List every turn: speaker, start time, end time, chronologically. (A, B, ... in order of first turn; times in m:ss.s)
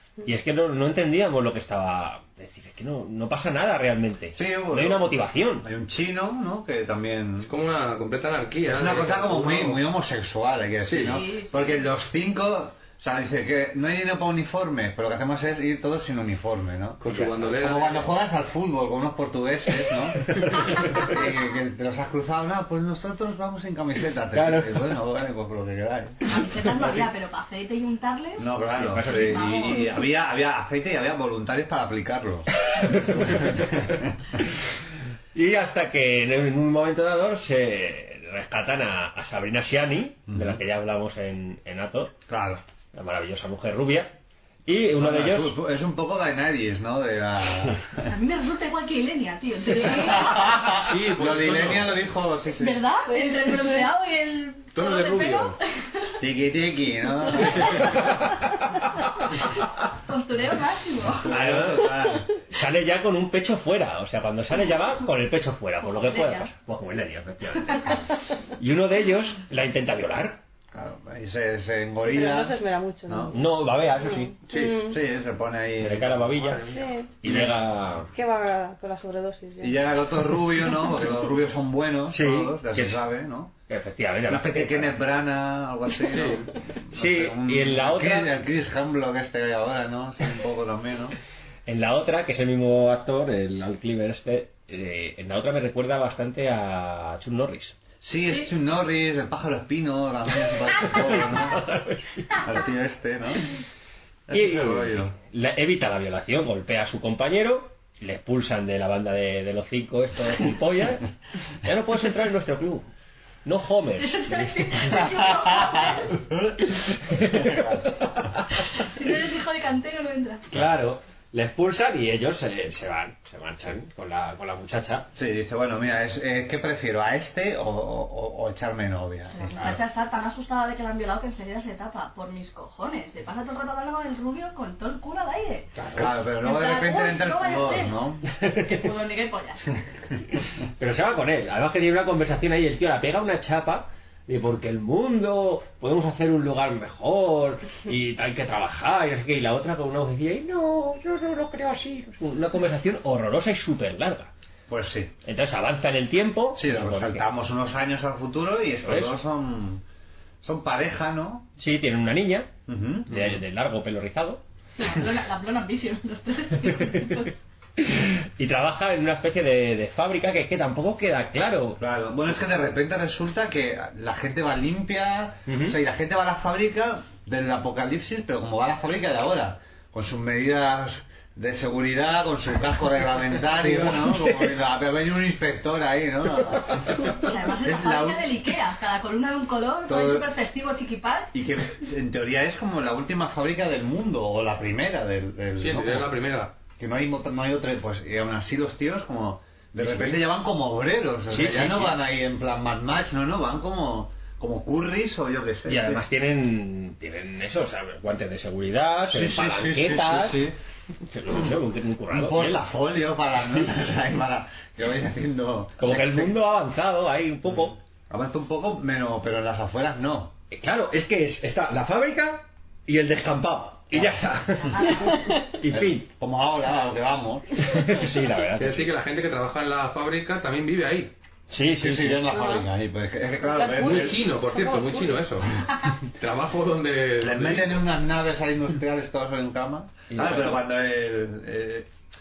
0:00.2-0:05.7 A
0:04.3-0:07.5 B
0:07.4-0:09.8 C
0:08.7-0:26.2 B
0:10.8-0:11.2 C
0:11.1-0:11.8 D
0:17.0-0:18.1 C
0:17.1-0:17.5 A
0:20.3-0:21.1 A
0:24.3-0:24.9 A
0:26.2-0:30.0 D
0:26.6-0:27.0 A
0:28.4-0:34.4 B
0:28.8-0:29.7 A
0:32.8-0:33.6 A
0:35.3-0:42.2 A
0:40.3-0:40.6 B
0:42.3-0:42.6 B
0:42.9-0:44.1 A
0:44.7-0:45.6 A
0:45.0-0:48.1 B
0:48.1-0:50.3 D
0:50.0-0:52.8 B
0:50.2-0:52.0 C
0:52.6-0:56.1 D
0:53.0-0:53.9 E
0:54.7-0:55.6 C
0:56.2-0:57.9 B
0:57.8-0:58.4 A
0:59.9-1:01.3 D
1:01.2-1:02.3 B
1:01.3-1:08.0 A
1:06.0-1:06.5 D
1:08.6-1:10.4 A
1:10.7-1:13.4 B
1:12.0-1:13.4 E
1:13.3-1:14.3 A
1:14.1-1:15.0 E
1:14.5-1:14.9 C
1:14.8-1:16.4 B
1:15.8-1:16.7 A
1:16.4-1:16.7 C
1:16.6-1:17.1 E
1:17.2-1:18.1 A
1:17.2-1:17.6 B
1:18.1-1:19.8 E
1:19.6-1:23.5 B
1:22.1-1:23.0 A
1:23.7-1:25.0 A
1:24.3-1:31.2 B
1:26.1-1:26.5 C
1:26.9-1:28.3 A
1:31.7-1:37.8 A
1:38.0-1:41.6 B
1:40.8-1:42.4 A
1:42.4-1:43.5 B
1:44.3-1:45.2 B
1:44.3-1:51.1 A
1:51.6-1:52.9 A
1:53.4-1:55.1 A
1:54.0-1:56.2 D
1:56.3-1:56.6 B
1:56.7-1:58.6 A
1:57.1-1:58.0 B
1:58.6-2:00.5 D
2:00.5-2:05.1 A
2:05.2-2:09.8 B
2:09.3-2:15.7 D
2:15.8-2:16.2 A
2:15.9-2:18.3 B
2:16.4-2:19.7 D
2:18.4-2:18.8 A
2:20.8-2:34.3 A
2:34.7-2:35.2 B
2:35.3-2:37.3 A
2:36.6-2:39.8 B
2:38.8-2:39.2 A
2:40.4-2:41.5 B
2:41.6-2:42.5 A
2:42.7-2:43.4 B
2:43.1-2:44.4 A
2:44.8-2:47.4 D
2:46.7-2:47.0 A
2:47.8-2:51.8 A
2:51.8-3:08.4 B
2:55.5-2:55.8 A
3:03.4-3:04.6 A
3:07.2-3:11.3 D
3:09.9-3:10.3 B
3:11.3-3:16.1 B
3:15.6-3:16.5 C
3:16.8-3:26.0 B
3:19.9-3:20.2 A
3:21.3-3:22.0 A
3:25.7-3:30.4 A
3:29.1-3:30.6 B
3:31.1-3:32.6 A
3:31.3-3:31.6 B
3:32.1-3:36.4 B
3:35.8-3:37.8 A
3:37.5-3:40.3 B
3:40.5-3:44.9 A
3:43.9-3:44.2 B
3:44.7-3:45.2 D
3:45.1-3:45.4 E
3:45.6-3:46.1 A
3:45.7-3:47.6 B
3:47.6-3:48.9 A
3:48.6-3:51.1 C
3:51.5-3:52.2 A
3:51.7-3:54.2 B
3:52.3-3:52.7 E
3:53.4-3:55.4 E
3:53.7-3:55.5 C
3:56.2-3:57.9 C
3:57.2-4:01.9 B
4:00.1-4:00.6 A